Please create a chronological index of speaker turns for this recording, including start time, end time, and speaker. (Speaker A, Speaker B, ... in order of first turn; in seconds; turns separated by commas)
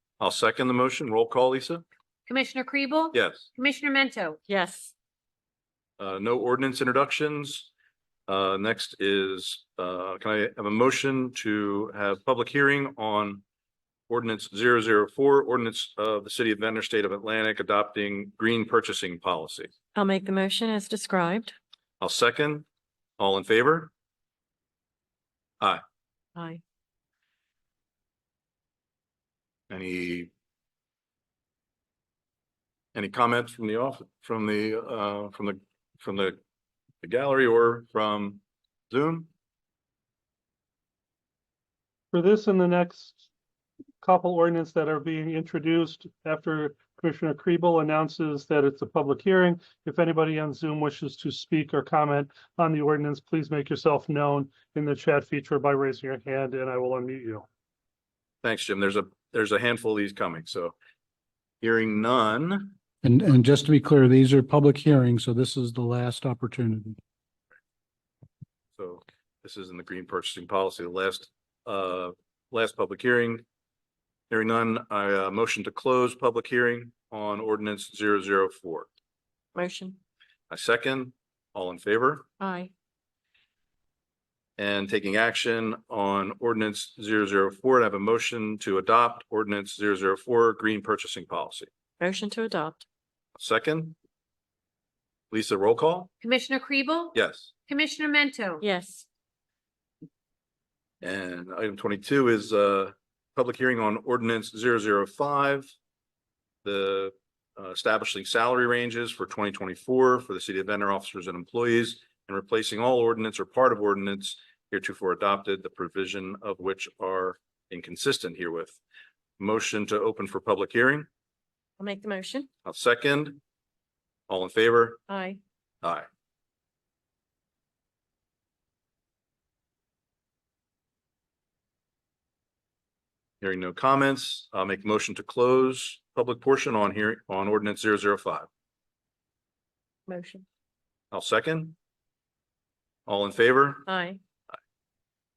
Speaker A: 0.2-1.8, Speaker B: 2.3-4.4, Speaker A: 3.1-3.5, Speaker C: 4.5-4.9, Speaker A: 6.0-7.7, Speaker A: 8.3-13.4, Speaker A: 14.1-19.7, Speaker C: 19.9-21.5, Speaker A: 22.0-22.7, Speaker A: 23.2-23.9, Speaker A: 29.7-30.3, Speaker A: 32.9-36.4, Speaker A: 37.0-39.3, Speaker D: 42.1-43.2, Speaker D: 44.0-57.4, Speaker A: 58.4-60.8, Speaker A: 61.6-62.8, Speaker E: 63.0-67.0, Speaker A: 68.8-73.4, Speaker A: 74.3-78.9, Speaker C: 79.5-80.0, Speaker A: 80.5-82.3, Speaker C: 82.4-82.7, Speaker A: 84.6-91.7, Speaker C: 92.0-92.8, Speaker A: 93.4-94.0, Speaker A: 95.3-96.1, Speaker B: 96.2-97.2, Speaker A: 97.1-97.5, Speaker B: 97.7-98.6, Speaker C: 98.6-99.0, Speaker A: 101.0-105.7, Speaker A: 106.6-118.8, Speaker A: 119.4-121.1, Speaker C: 121.8-122.5, Speaker A: 122.7-123.4, Speaker A: 124.3-125.0, Speaker C: 125.1-125.4, Speaker A: 133.4-138.5, Speaker C: 140.1-140.4, Speaker A: 141.1-141.8, Speaker A: 143.1-143.9, Speaker C: 143.9-144.2